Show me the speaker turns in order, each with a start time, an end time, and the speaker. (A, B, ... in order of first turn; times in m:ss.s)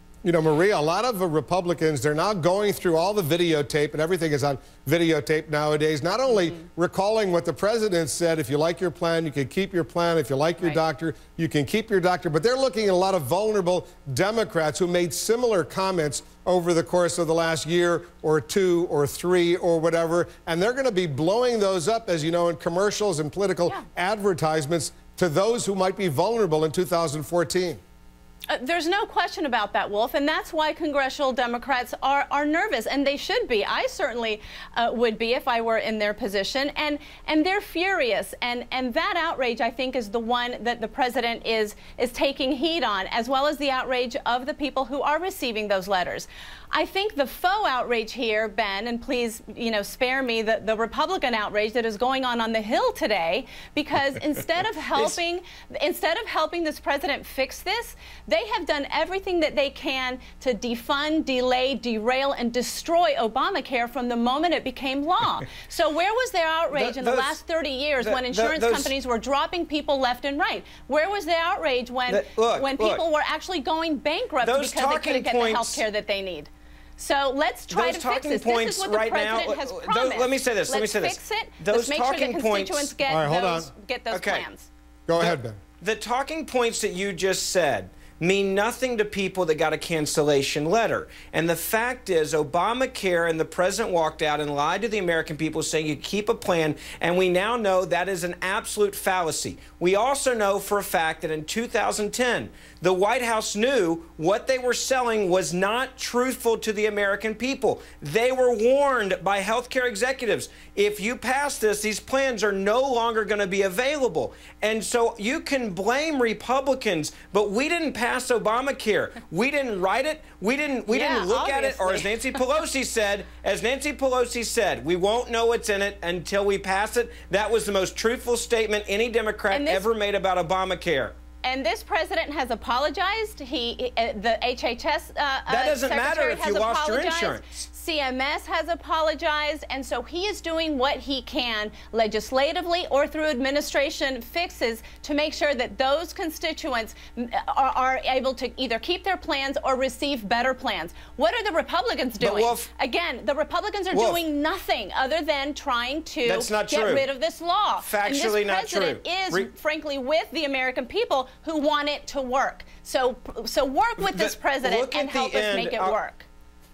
0:00.2-0:27.8 A
0:28.5-1:24.7 B
0:54.9-0:55.2 C
1:06.7-1:07.4 C
1:08.0-1:08.9 C
1:12.1-1:13.0 C
1:14.4-1:15.8 C
1:17.7-1:22.9 C
1:23.1-1:23.7 A
1:24.1-1:24.4 C
1:25.1-1:25.6 A
1:25.2-2:11.2 C
2:00.9-2:02.4 B
2:09.5-2:09.8 B
2:11.4-2:46.3 B
2:15.5-2:17.5 C
2:32.2-2:32.7 C
2:33.9-2:34.2 C
2:36.2-2:37.1 C
2:37.8-2:39.5 C
2:44.0-2:46.0 C